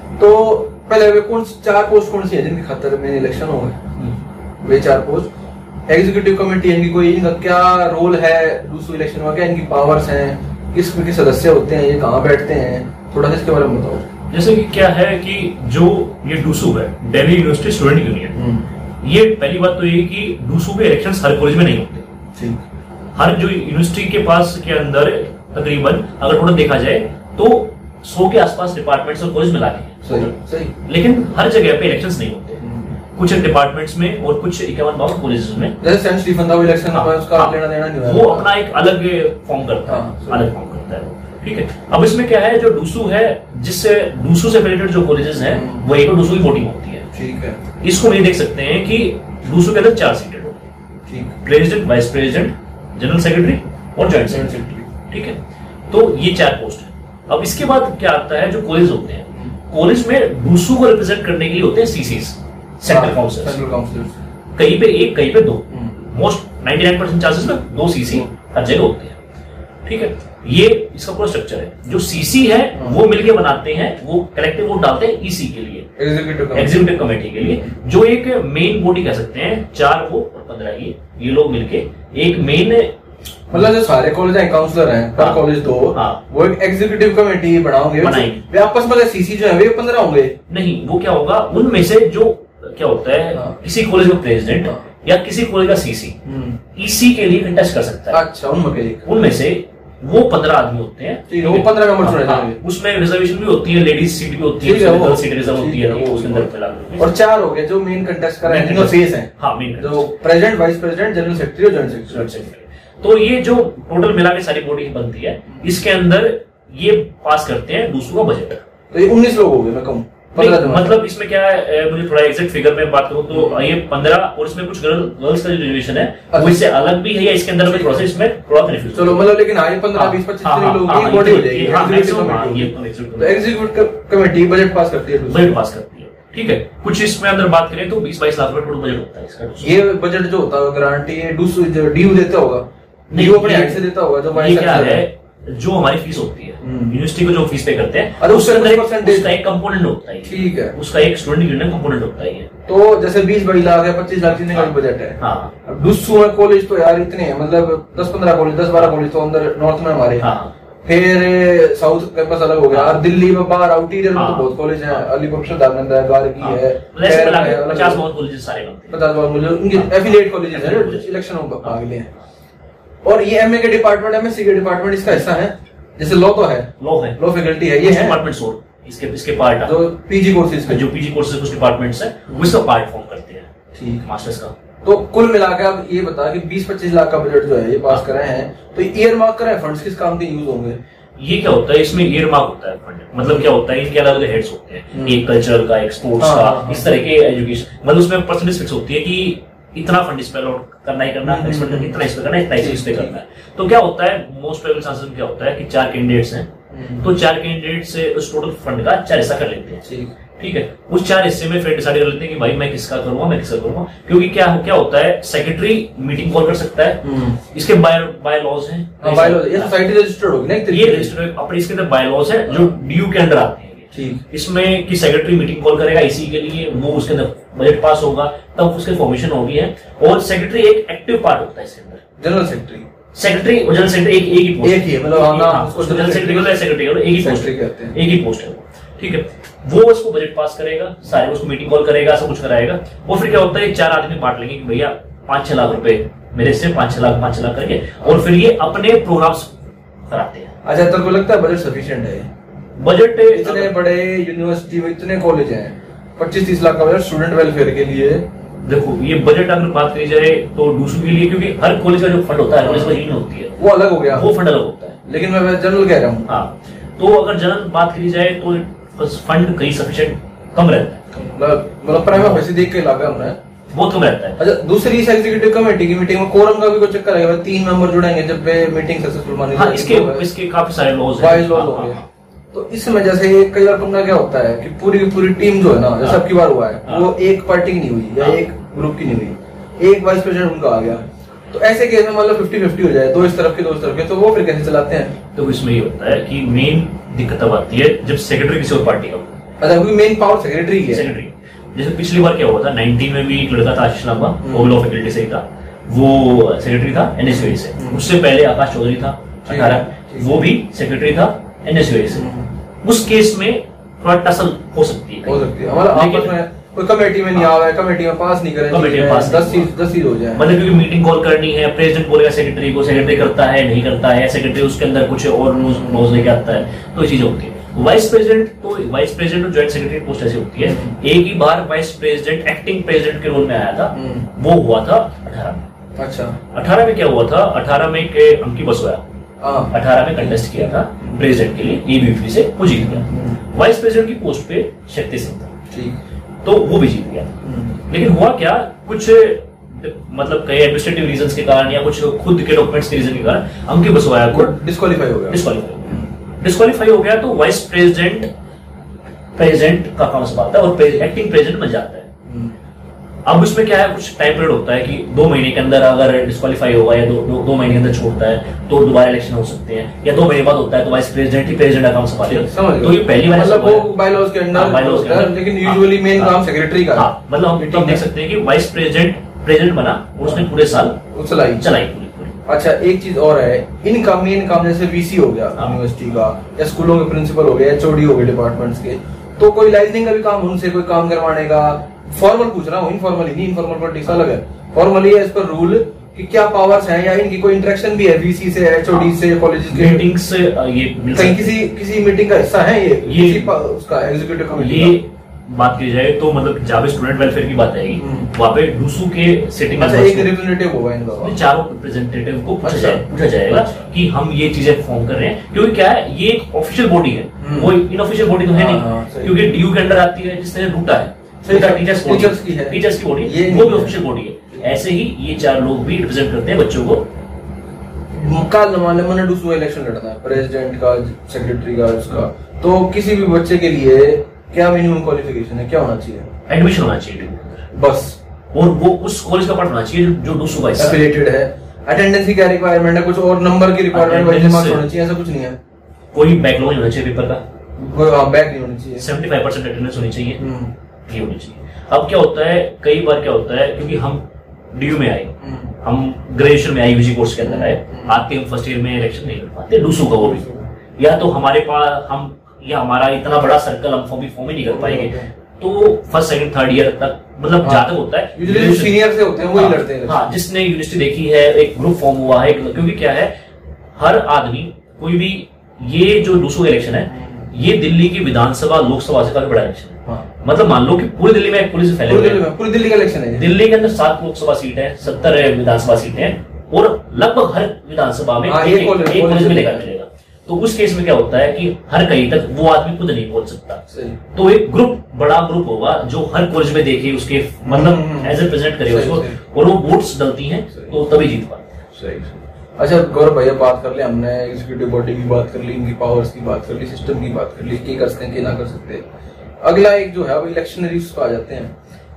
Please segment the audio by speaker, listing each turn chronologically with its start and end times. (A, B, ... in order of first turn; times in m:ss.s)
0:00.2-0:03.9 A
0:04.6-0:05.3 A
0:05.9-0:14.1 A
0:14.3-0:18.4 B
0:18.3-0:18.7 A
0:19.0-0:22.1 B
0:22.4-0:22.6 A
0:23.1-0:35.8 B
0:30.0-0:30.7 A
0:32.6-0:32.9 A
0:35.8-0:38.5 A
0:36.9-0:47.1 B
0:39.8-0:40.4 A
0:45.5-0:45.8 A
0:47.1-0:47.6 A
0:47.8-0:50.6 B
0:51.1-0:51.3 A
0:51.4-1:03.6 B
0:54.3-0:54.9 A
1:02.9-1:04.2 A
1:04.6-1:09.2 B
1:05.7-1:05.9 A
1:09.8-1:15.9 B
1:16.0-1:16.8 A
1:16.5-1:22.9 B
1:23.5-1:30.4 A
1:25.2-1:26.2 B
1:28.0-1:28.4 B
1:30.5-1:36.2 B
1:36.2-1:36.6 A
1:36.7-1:38.2 B
1:38.1-1:39.0 A
1:39.0-1:47.1 B
1:41.3-1:42.6 A
1:44.6-1:52.3 A
1:48.4-1:50.1 B
1:52.1-1:58.6 B
1:58.9-2:01.0 A
2:00.4-2:09.3 B
2:03.3-2:03.6 A
2:06.3-2:06.6 A
2:07.7-2:08.1 A
2:08.9-2:15.6 A
2:09.9-2:13.4 B
2:15.3-2:19.8 B
2:19.6-2:25.0 A
2:23.1-2:32.5 B
2:26.6-2:27.0 A
2:28.2-2:29.3 A
2:30.2-2:30.7 A
2:32.7-2:40.3 A
2:34.5-2:35.5 B
2:40.2-2:40.5 B
2:40.8-2:48.0 A
2:42.7-2:43.0 B
2:44.1-2:45.0 B
2:46.4-2:49.0 B
2:48.9-2:52.1 A
2:49.7-2:51.1 B
2:53.0-2:58.2 A
2:56.8-2:57.2 B
2:57.8-2:59.8 B
2:59.6-3:00.8 A
3:00.7-3:03.5 B
3:02.3-3:02.6 A
3:03.7-3:04.0 A
3:04.0-3:04.5 B
3:04.8-3:10.8 A
3:11.2-3:29.8 B
3:13.2-3:13.5 A
3:14.9-3:15.2 A
3:16.2-3:16.9 A
3:21.2-3:22.0 A
3:22.5-3:23.1 A
3:26.7-3:27.1 A
3:29.8-3:30.1 A
3:30.4-3:39.7 B
3:37.0-3:37.4 A
3:39.0-3:41.1 A
3:40.7-3:52.0 B
3:43.9-3:44.2 A
3:52.2-3:52.9 A
3:53.1-4:09.5 B
3:54.6-3:58.0 A
4:10.1-4:10.5 B
4:10.6-4:12.3 A
4:12.8-4:13.7 B
4:13.3-4:18.3 A
4:18.6-4:23.6 B
4:22.6-4:23.0 A
4:23.6-4:24.3 A
4:24.1-4:25.0 B
4:25.0-4:26.3 A
4:26.3-4:31.0 B
4:31.1-4:33.4 A
4:32.1-4:32.4 B
4:33.7-4:34.4 B
4:34.4-4:40.2 A
4:39.5-4:42.0 B
4:41.2-4:42.0 A
4:42.5-4:55.2 A
4:46.8-4:47.1 B
4:55.3-4:59.3 B
4:59.6-5:01.1 A
5:00.9-5:12.3 B
5:04.4-5:04.7 A
5:07.4-5:08.0 A
5:09.5-5:10.5 A
5:12.1-5:12.5 A
5:12.8-5:16.4 B
5:15.2-5:20.6 A
5:18.7-5:19.7 B
5:20.3-5:35.7 B
5:25.5-5:26.2 A
5:30.6-5:31.0 A
5:33.9-5:34.3 A
5:36.0-5:36.4 A
5:36.5-5:39.0 B
5:39.4-5:41.2 A
5:39.7-5:45.5 B
5:42.8-5:43.4 A
5:45.7-5:46.0 A
5:46.4-5:54.6 B
5:47.4-5:47.8 A
5:54.3-5:56.1 A
5:55.3-5:58.3 B
5:59.4-6:02.1 B
6:02.3-6:02.6 A
6:03.2-6:13.9 B
6:12.2-6:18.0 A
6:14.5-6:16.3 B
6:16.9-6:21.0 B
6:20.2-6:21.7 A
6:21.6-6:22.4 B
6:22.4-6:40.1 A
6:39.7-6:41.5 B
6:41.1-6:45.0 A
6:43.0-6:43.5 B
6:44.5-6:50.3 B
6:48.0-6:48.3 A
6:49.8-6:51.4 A
6:51.2-7:07.1 B
6:52.6-6:53.9 A
6:57.4-6:57.8 A
6:58.5-6:59.4 A
7:01.4-7:04.0 A
7:08.1-7:16.3 A
7:16.5-7:17.7 B
7:17.7-7:18.2 A
7:18.5-7:21.0 B
7:20.8-7:25.6 A
7:23.9-7:24.8 B
7:26.1-7:27.4 B
7:27.8-7:29.1 A
7:29.0-7:30.4 B
7:30.4-7:30.7 A
7:31.1-7:34.2 B
7:34.7-7:48.9 B
7:35.4-7:35.7 A
7:37.4-7:38.2 A
7:40.2-7:40.7 A
7:44.6-7:45.3 A
7:47.6-7:50.4 A
7:49.5-7:53.3 B
7:54.0-8:02.5 B
7:57.1-7:57.5 A
8:02.1-8:03.5 A
8:03.4-8:21.6 B
8:08.4-8:09.9 A
8:13.9-8:14.2 A
8:17.6-8:19.4 A
8:21.9-8:29.0 A
8:29.6-8:31.8 A